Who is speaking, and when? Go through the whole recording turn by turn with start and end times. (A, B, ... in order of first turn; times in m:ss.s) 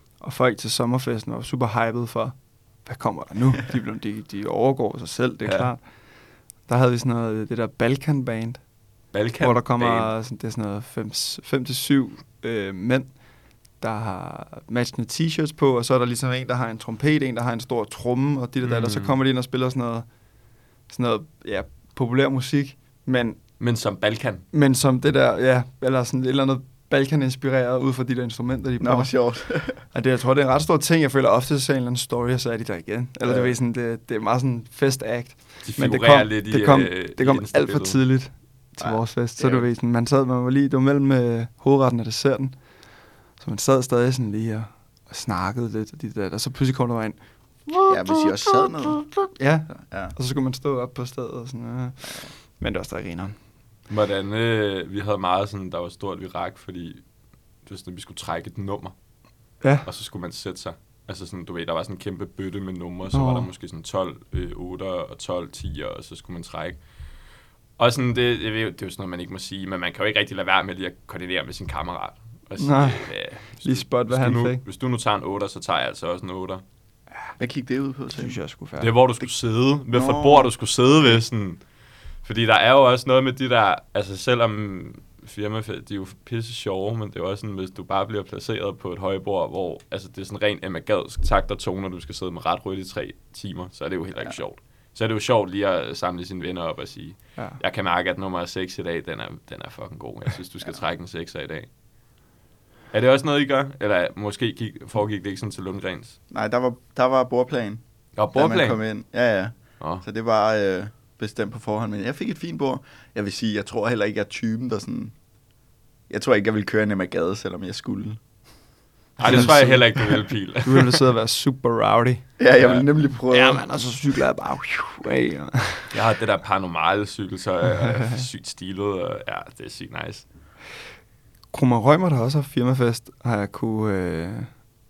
0:00.2-0:05.8 A
0:06.7-0:08.6 A
0:09.1-0:10.1 B
0:09.4-0:13.1 A
0:13.8-0:20.0 A
0:18.6-0:19.1 B
0:20.9-0:23.4 A
0:23.6-0:24.4 B
0:24.5-0:29.1 A
0:28.8-0:29.8 C
0:29.9-0:42.6 A
0:33.2-0:33.5 C
0:35.6-0:38.0 B
0:38.8-0:39.7 C
0:43.4-0:53.3 A
0:47.9-0:49.1 C
0:49.7-0:50.1 C
0:53.9-0:57.0 B
0:57.6-0:58.9 B
0:59.8-1:06.8 B
1:03.1-1:03.5 A
1:07.8-1:16.6 B
1:12.6-1:13.1 A
1:13.6-1:14.6 A
1:17.4-1:18.4 C
1:18.1-1:18.9 A
1:18.8-1:21.6 B
1:19.9-1:20.5 C
1:22.2-1:41.7 B
1:42.9-1:46.2 B
1:46.3-1:47.8 C
1:48.2-1:48.8 B
1:48.3-1:55.1 C
1:56.1-1:58.2 C
1:59.2-2:01.0 B
1:59.2-2:02.2 A
2:02.4-2:03.6 C
2:02.6-2:02.9 B
2:03.3-2:05.9 A
2:05.9-2:10.2 B
2:07.8-2:08.2 A
2:11.5-2:14.5 A